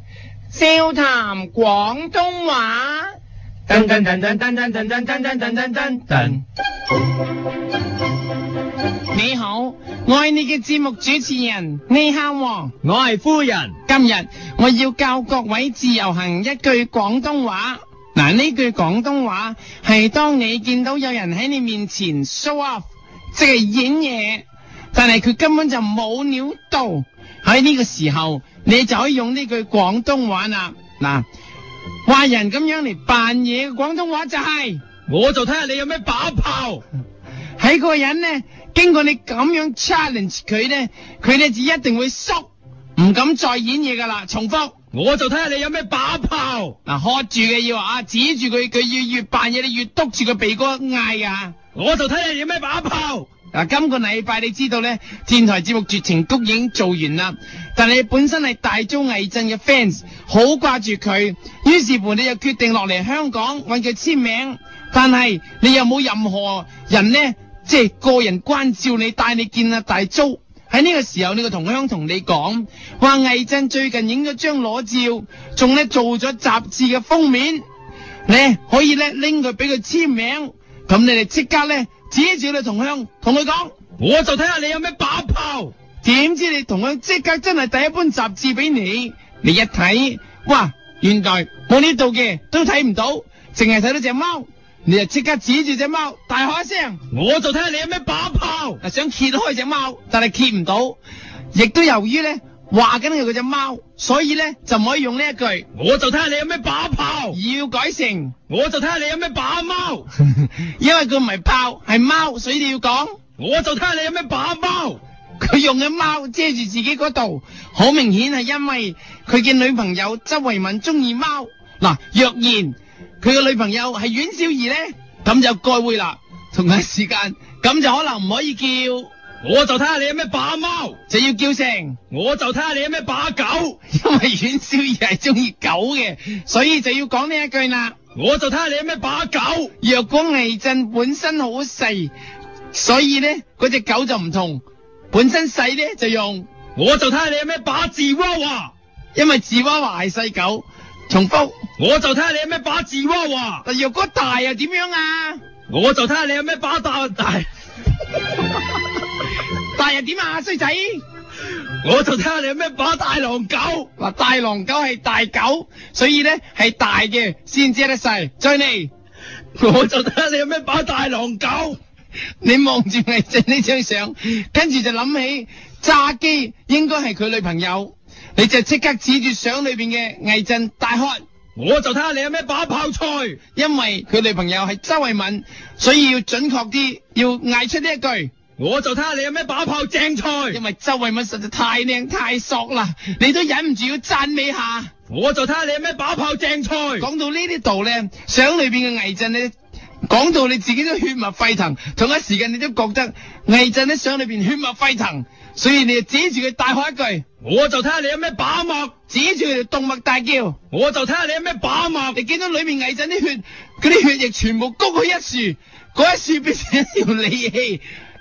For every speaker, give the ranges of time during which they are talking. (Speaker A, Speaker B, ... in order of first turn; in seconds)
Speaker A: 0.5-3.1, 5.5-6.4, 9.1-12.8, 13.9-31.3, 32.1-34.8, 37.6-44.7, 46.9-51.5, 53.5-77.6, 78.3-83.7, 86.0-97.0, 98.8-101.0, 101.5-105.7, 107.3-108.3, 110.2-113.2, 115.4-129.1, 131.1-132.0, 133.9-138.0, 139.8-142.1, 142.7-146.5, 149.2-151.6, 153.7-155.4, 159.7-161.0, 164.0-168.9, 172.4-181.2, 183.5-188.3, 190.5-194.9, 197.0-199.5, 200.1-207.2, 209.1-210.6, 212.1-217.8
Speaker B: 3.7-5.4, 12.8-13.8, 35.1-36.8, 44.9-46.8, 51.7-53.3, 84.0-85.7, 97.1-98.8, 105.7-107.4, 108.5-110.1, 113.4-115.0, 129.4-131.0, 132.1-133.8, 138.2-139.7, 146.8-148.7, 151.8-153.6, 155.7-157.5, 161.8-163.9, 169.6-171.8, 181.6-183.4, 188.6-190.6, 195.1-197.1, 207.4-208.9, 210.7-212.2